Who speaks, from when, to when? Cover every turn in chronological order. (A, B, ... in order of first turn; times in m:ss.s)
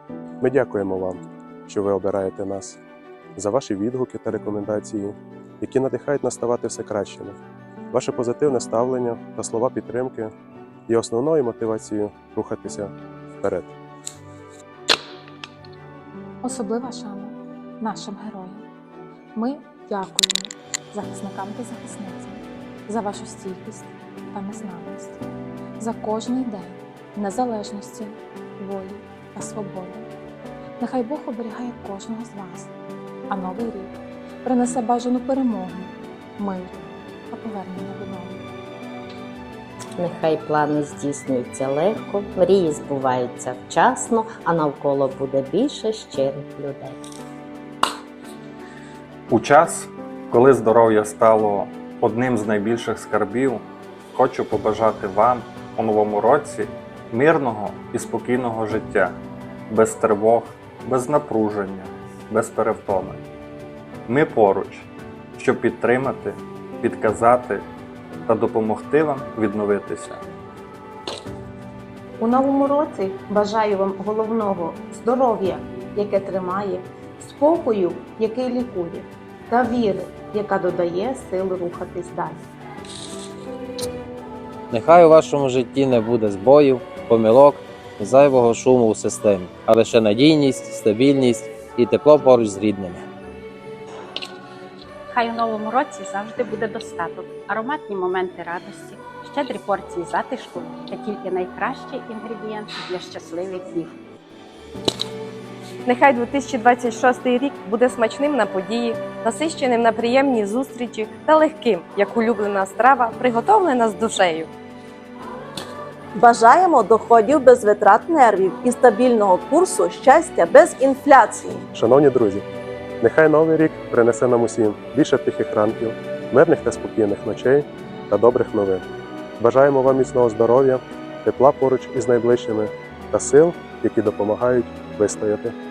0:00.4-0:02.8 A
0:03.4-0:07.4 A
0:07.9-0:10.3 A
0:10.9-0:13.7 A
0:16.4-0:18.6 B
0:19.3-0:25.2 B
0:25.8-0:30.1 B
0:30.8-0:32.7 B
0:33.3-0:33.9 B
0:34.4-0:36.8 B
0:37.3-0:38.4 B
0:40.0-0:47.0 C
0:49.3-0:59.1 D
0:59.7-1:03.2 D
1:04.1-1:07.6 D
1:08.3-1:10.2 D
1:12.2-1:22.4 E
1:24.7-1:33.0 F
1:35.1-1:43.9 G
1:45.8-1:54.5 H
1:56.1-2:01.6 I
2:01.7-2:02.4 A
2:03.0-2:08.8 A
2:09.4-2:15.5 A